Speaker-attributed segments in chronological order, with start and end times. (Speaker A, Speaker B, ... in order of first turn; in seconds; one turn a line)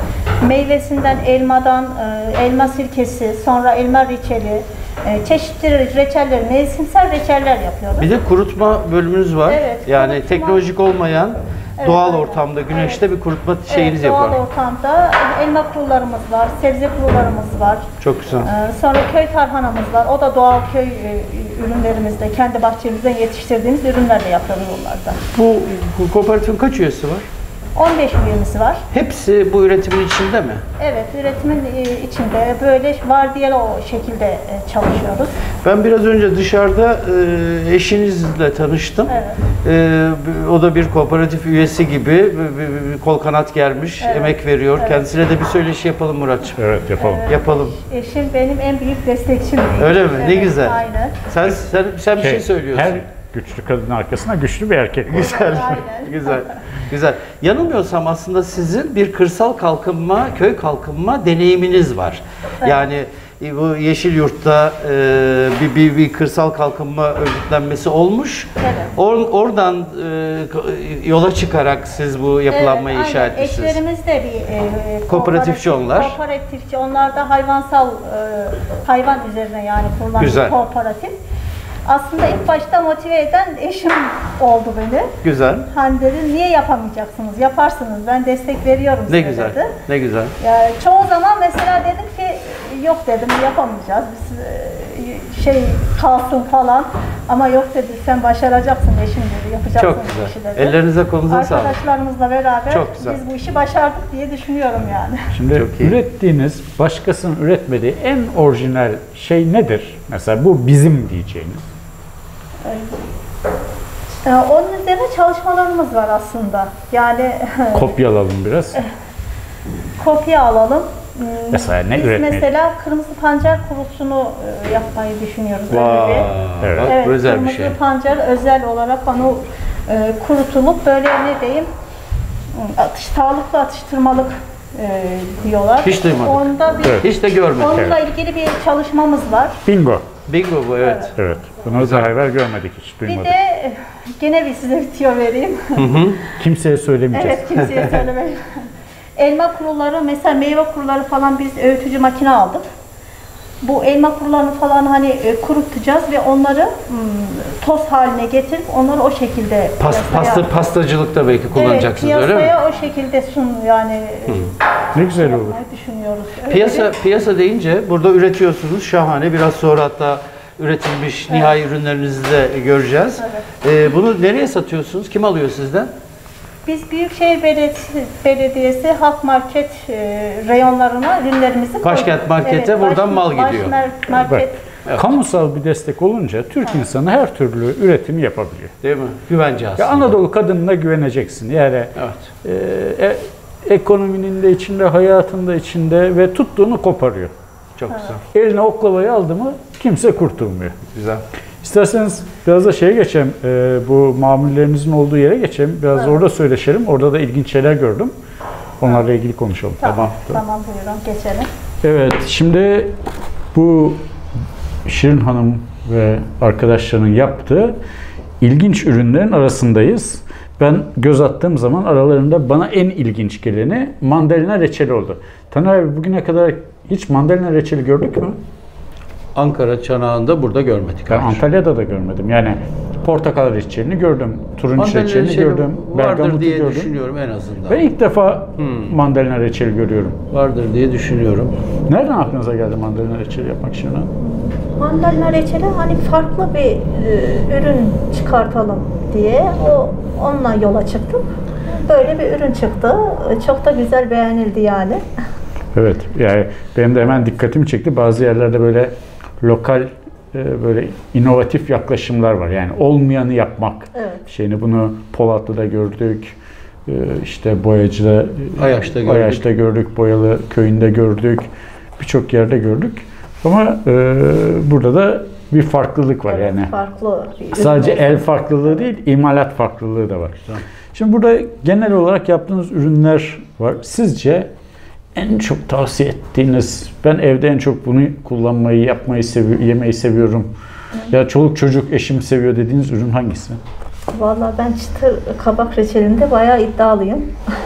Speaker A: 0.4-8.1
Speaker B: 8.0-14.4
Speaker A: 9.4-10.6
Speaker A: 11.8-13.0
Speaker A: 13.7-17.9
Speaker B: 18.0-18.5
Speaker A: 18.4-25.2
Speaker B: 25.3-27.2
Speaker A: 27.8-28.8
Speaker B: 28.9-30.6
Speaker A: 30.8-35.3
Speaker B: 35.6-46.6
Speaker A: 39.1-39.4
Speaker A: 44.0-45.0
Speaker C: 46.6-47.3
Speaker A: 47.0-51.2
Speaker B: 47.3-47.7
Speaker B: 49.8-53.0
Speaker C: 52.1-55.3
Speaker B: 55.1-73.8
Speaker A: 55.1-56.5
Speaker A: 68.6-68.9
Speaker A: 72.5-81.1
Speaker B: 75.1-76.2
Speaker B: 80.2-80.5
Speaker A: 81.8-85.1
Speaker B: 85.2-85.7
Speaker A: 85.7-89.8
Speaker B: 89.1-90.3
Speaker A: 90.4-105.3
Speaker B: 99.8-101.8
Speaker B: 102.7-103.2
Speaker C: 105.3-111.6
Speaker B: 105.5-106.0
Speaker A: 112.6-113.1
Speaker A: 114.2-117.9
Speaker C: 117.7-118.8
Speaker A: 120.0-131.7
Speaker C: 121.5-122.5
Speaker B: 125.7-127.8
Speaker C: 126.6-126.9
Speaker A: 132.5-139.6
Speaker B: 135.8-137.8
Speaker C: 139.6-140.0
Speaker B: 140.3-141.1
Speaker A: 140.8-141.1
Speaker C: 141.2-143.3
Speaker B: 141.7-142.1
Speaker A: 143.1-145.8
Speaker B: 145.7-146.2
Speaker C: 146.4-147.4
Speaker A: 147.1-148.4
Speaker B: 147.7-148.0
Speaker A: 149.2-152.6
Speaker A: 153.6-160.5
Speaker B: 159.8-162.5
Speaker A: 161.5-164.5
Speaker C: 164.9-165.6
Speaker A: 165.1-166.9
Speaker B: 166.5-175.9
Speaker A: 173.2-173.4
Speaker A: 176.6-184.6
Speaker B: 181.8-183.7
Speaker C: 184.2-188.7
Speaker B: 188.8-190.2
Speaker C: 189.8-197.3
Speaker B: 192.0-192.2
Speaker B: 197.8-198.2
Speaker C: 198.3-200.8
Speaker B: 200.9-201.2
Speaker C: 201.6-208.1
Speaker C: 208.8-209.8
Speaker A: 209.8-211.5
Speaker B: 209.8-210.4
Speaker C: 211.8-212.9
Speaker C: 213.5-214.0
Speaker C: 214.8-217.7
Speaker C: 218.4-228.4
Speaker B: 229.3-231.4
Speaker C: 231.1-236.9
Speaker B: 234.7-237.9
Speaker C: 237.7-240.2
Speaker B: 238.6-238.9
Speaker B: 240.3-241.5
Speaker C: 241.9-244.1
Speaker A: 244.2-255.0
Speaker C: 255.7-266.3
Speaker A: 263.9-264.2
Speaker C: 266.9-276.7
Speaker B: 268.5-269.4
Speaker A: 276.3-278.4
Speaker C: 277.5-284.5
Speaker C: 285.1-290.5
Speaker C: 291.1-293.6
Speaker A: 294.1-297.3